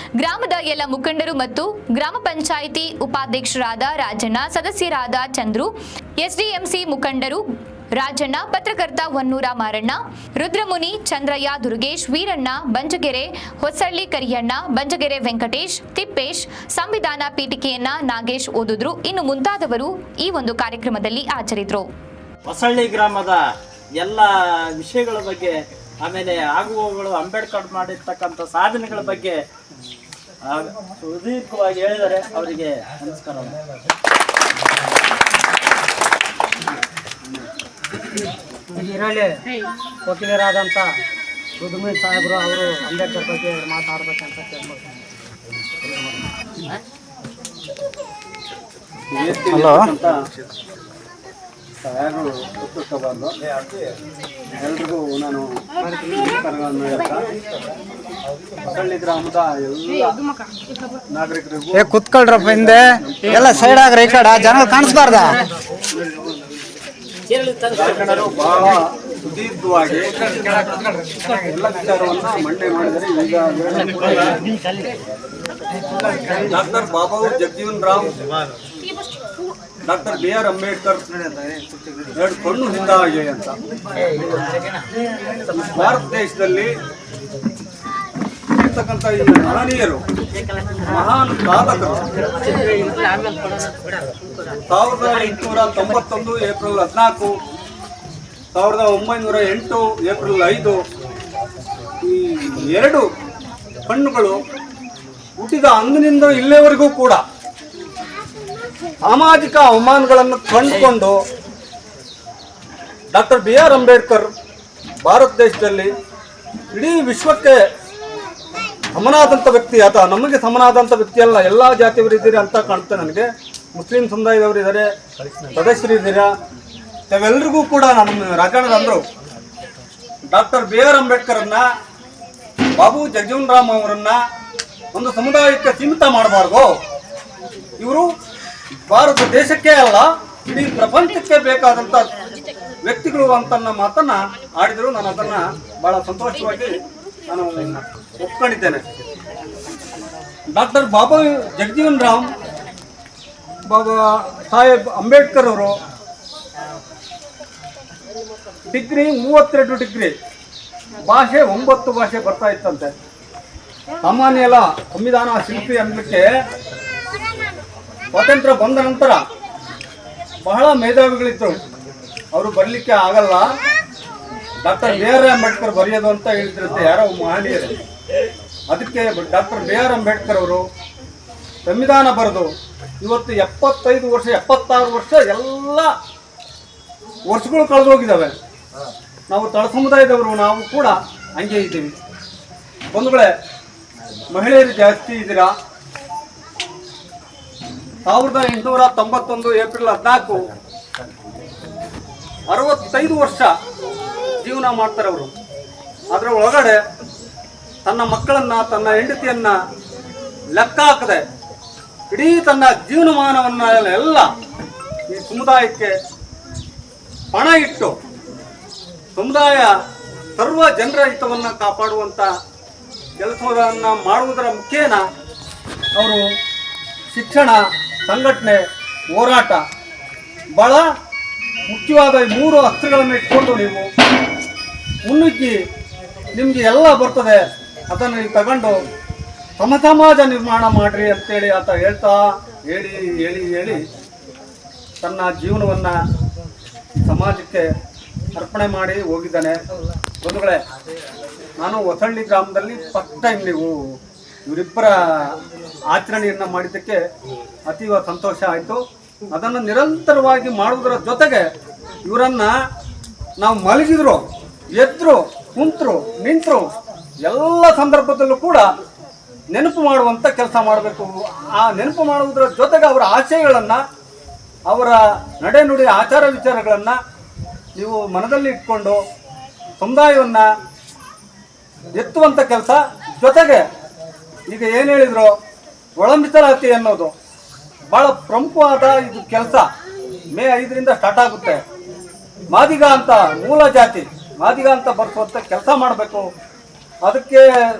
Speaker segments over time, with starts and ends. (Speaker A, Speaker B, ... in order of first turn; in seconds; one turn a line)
Speaker A: 0.2-7.4
Speaker A: 8.0-21.9
Speaker B: 22.4-23.4
Speaker B: 24.0-25.5
Speaker B: 26.0-29.4
Speaker B: 30.4-33.5
Speaker C: 38.7-39.4
Speaker C: 40.0-41.0
Speaker C: 41.6-45.0
Speaker D: 49.1-50.1
Speaker E: 49.5-49.9
Speaker D: 51.8-53.3
Speaker D: 54.6-55.5
Speaker D: 56.0-57.3
Speaker D: 58.6-60.2
Speaker D: 61.1-61.9
Speaker E: 61.7-65.3
Speaker D: 62.4-63.8
Speaker C: 64.8-65.2
Speaker B: 67.3-67.6
Speaker D: 67.7-70.6
Speaker D: 71.2-74.4
Speaker D: 76.3-78.1
Speaker D: 79.8-83.6
Speaker D: 85.4-86.7
Speaker D: 88.5-90.0
Speaker D: 90.8-92.0
Speaker B: 92.5-93.0
Speaker D: 94.7-97.3
Speaker D: 98.5-100.8
Speaker D: 102.0-103.1
Speaker D: 103.8-104.4
Speaker D: 105.4-107.2
Speaker D: 109.0-111.2
Speaker D: 113.1-114.3
Speaker D: 115.0-115.9
Speaker D: 116.7-117.6
Speaker D: 118.9-124.9
Speaker D: 125.5-126.3
Speaker D: 127.1-129.0
Speaker D: 130.3-131.7
Speaker D: 132.8-134.2
Speaker D: 134.9-136.7
Speaker D: 137.8-138.1
Speaker D: 138.9-142.1
Speaker D: 142.8-146.8
Speaker D: 147.3-148.8
Speaker D: 150.5-152.3
Speaker D: 153.7-155.8
Speaker D: 158.7-160.1
Speaker D: 161.0-162.9
Speaker D: 164.0-166.3
Speaker D: 168.1-169.2
Speaker D: 170.5-171.6
Speaker D: 172.3-173.5
Speaker D: 174.6-177.8
Speaker D: 178.7-180.6
Speaker D: 181.7-182.5
Speaker D: 183.0-185.9
Speaker D: 187.3-188.3
Speaker D: 189.3-191.9
Speaker D: 192.9-193.3
Speaker D: 194.3-195.5
Speaker D: 198.1-200.5
Speaker D: 202.5-203.5
Speaker D: 204.4-205.3
Speaker D: 206.1-206.8
Speaker D: 207.8-209.6
Speaker D: 210.5-211.2
Speaker D: 212.1-214.3
Speaker D: 215.1-215.9
Speaker D: 217.3-217.9
Speaker D: 219.2-219.7
Speaker D: 220.4-222.3
Speaker D: 223.2-225.0
Speaker D: 225.9-226.2
Speaker D: 227.1-228.6
Speaker D: 229.1-229.6
Speaker D: 230.6-230.9
Speaker D: 231.7-233.9
Speaker D: 235.0-235.6
Speaker D: 236.3-238.8
Speaker D: 239.6-243.8
Speaker D: 245.0-246.0
Speaker D: 247.0-247.7
Speaker D: 248.3-249.6
Speaker D: 250.2-250.6
Speaker D: 251.6-253.8
Speaker D: 254.4-255.3
Speaker D: 255.9-257.0
Speaker D: 257.7-258.8
Speaker D: 259.3-261.5
Speaker D: 262.0-262.5
Speaker D: 263.4-264.2
Speaker D: 264.8-266.7
Speaker D: 267.2-268.7
Speaker D: 269.5-273.8
Speaker D: 274.7-277.0
Speaker D: 277.8-279.0
Speaker D: 279.8-280.5
Speaker D: 281.9-283.6
Speaker D: 284.5-285.3
Speaker D: 286.0-287.1
Speaker D: 287.9-289.6
Speaker D: 290.3-291.6
Speaker D: 292.5-296.2
Speaker D: 297.0-297.4